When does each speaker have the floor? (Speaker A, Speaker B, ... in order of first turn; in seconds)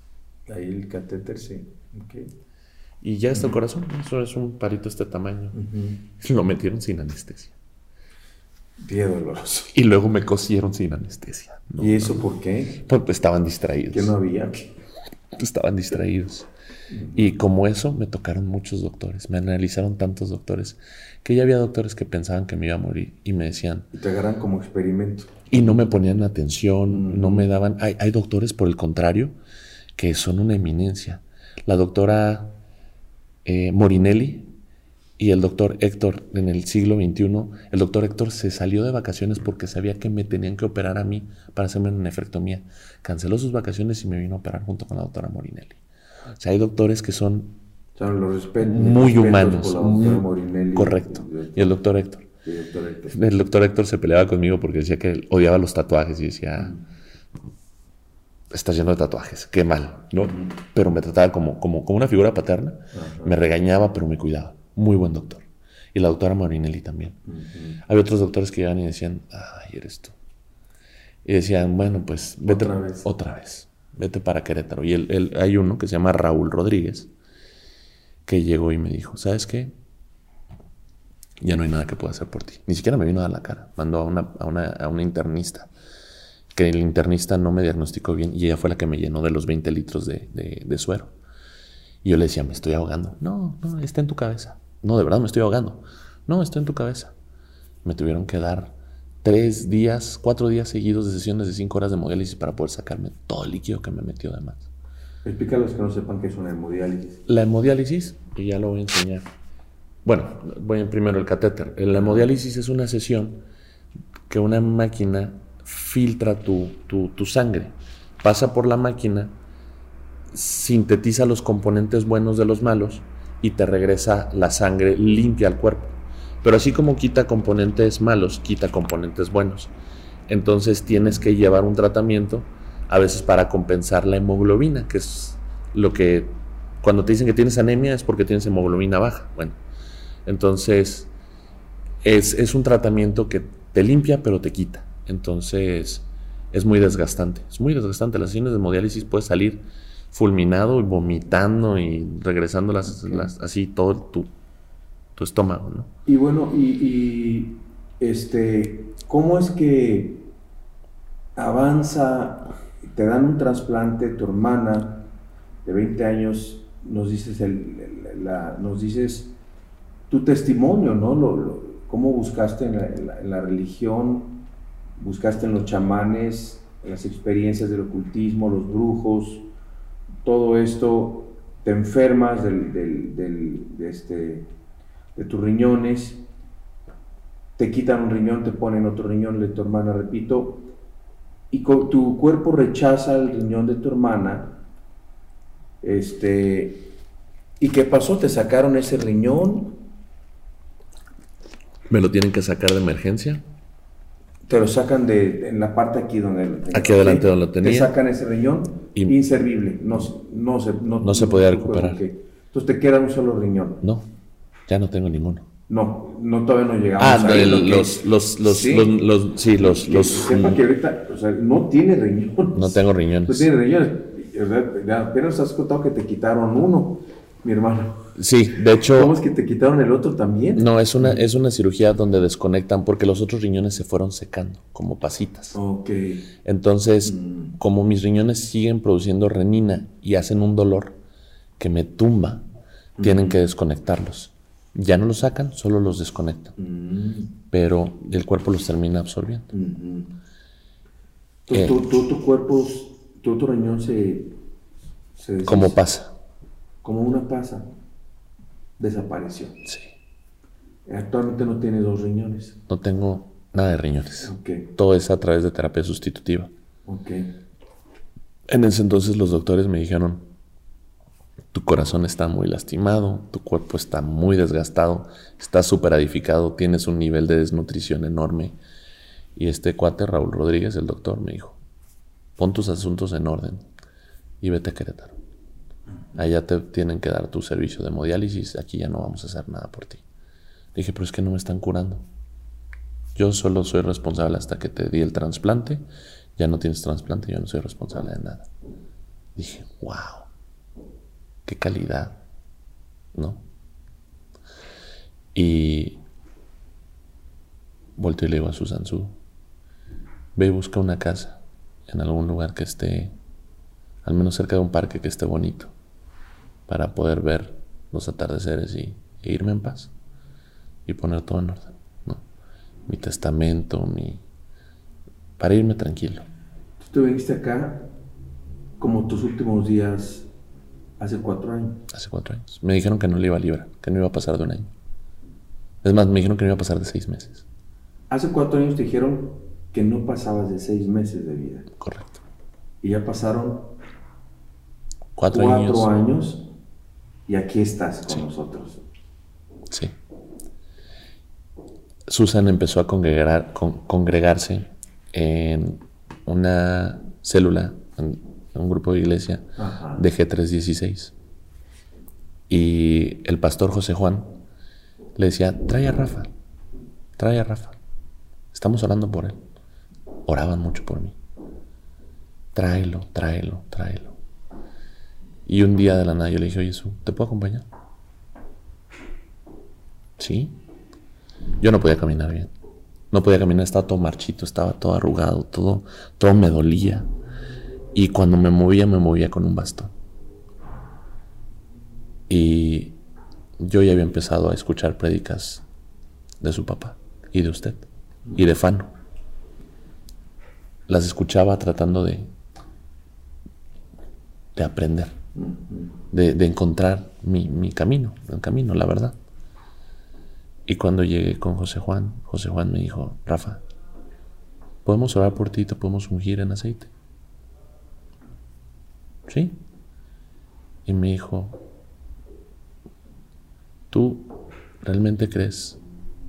Speaker A: 0.5-2.3, 5.5-6.0, 8.8-9.7, 11.8-12.8, 13.9-14.6, 16.9-17.3, 23.9-25.4, 26.9-27.5, 48.0-51.7, 52.4-53.1, 60.2-60.5, 62.9-63.3, 67.3-67.8, 72.5-73.1, 105.2-107.2, 111.9-112.2, 152.8-153.3, 156.1-160.3, 161.3-165.0, 165.6-169.3, 170.1-174.3, 175.0-179.4, 180.2-184.5, 185.1-186.2, 187.6-190.6, 191.5-194.6, 195.8-196.9, 197.6-199.8, 204.5-213.8, 215.7-218.9, 219.6-228.1, 228.8-231.2, 235.5-236.2, 237.1-237.5, 243.0-243.4, 246.6-247.3, 249.5-250.1, 251.5-254.3, 255.2-255.8, 256.8-257.6, 258.8-259.6, 260.9-262.5, 264.2-264.7, 266.9-267.3, 326.8-327.9, 328.8-330.3, 331.0-331.8, 338.1-341.7, 342.8-343.7, 345.3-346.5, 347.3-348.8, 359.6-360.0, 405.4-405.9
Speaker B: 3.0-5.6, 6.2-7.5, 9.7-12.2, 12.7-14.1, 15.3-16.5, 17.1-23.9, 25.5-29.3, 30.0-32.6, 33.4-34.5, 35.2-45.8, 46.3-47.5, 48.6-52.3, 53.1-56.8, 58.5-67.2, 67.8-70.1, 71.2-77.1, 78.2-79.7, 81.4-85.7, 86.5-91.1, 92.0-97.1, 97.8-104.7, 107.3-109.2, 110.0-113.4, 114.3-119.3, 120.3-129.7, 130.3-139.6, 140.2-141.1, 142.0-154.3, 155.2-155.9, 201.9-203.4, 206.7-207.9, 211.0-212.0, 213.8-214.1, 214.7-215.4, 217.0-220.6, 222.5-223.5, 228.2-229.1, 230.6-235.6, 236.4-241.0, 241.6-242.5, 243.0-246.5, 247.5-249.5, 251.5-251.8, 255.4-256.1, 259.6-259.9, 262.7-266.5, 268.5-270.2, 271.5-278.6, 279.4-281.6, 282.4-283.6, 284.4-285.1, 286.1-290.0, 290.7-292.0, 293.1-295.8, 296.4-298.5, 299.4-300.3, 301.4-302.2, 303.1-303.4, 305.3-306.0, 308.0-309.1, 310.3-313.1, 314.0-315.7, 316.7-319.9, 320.9-322.2, 322.9-324.2, 325.4-326.2, 331.9-334.7, 335.8-337.4, 341.8-342.2, 345.2-345.9, 352.1-361.1, 362.5-364.3, 365.1-366.3, 367.2-367.8, 368.5-369.4, 370.2-371.2, 372.5-374.1, 375.4-377.6, 380.2-380.6, 381.6-382.5, 383.1-387.1, 387.9-389.9, 392.3-393.0, 393.6-395.6, 396.4-397.8, 398.3-398.9, 400.9-402.3, 404.5-405.1, 406.1-409.1, 410.6-413.6, 414.8-416.9, 419.3-419.6, 420.9-421.6, 423.9-425.8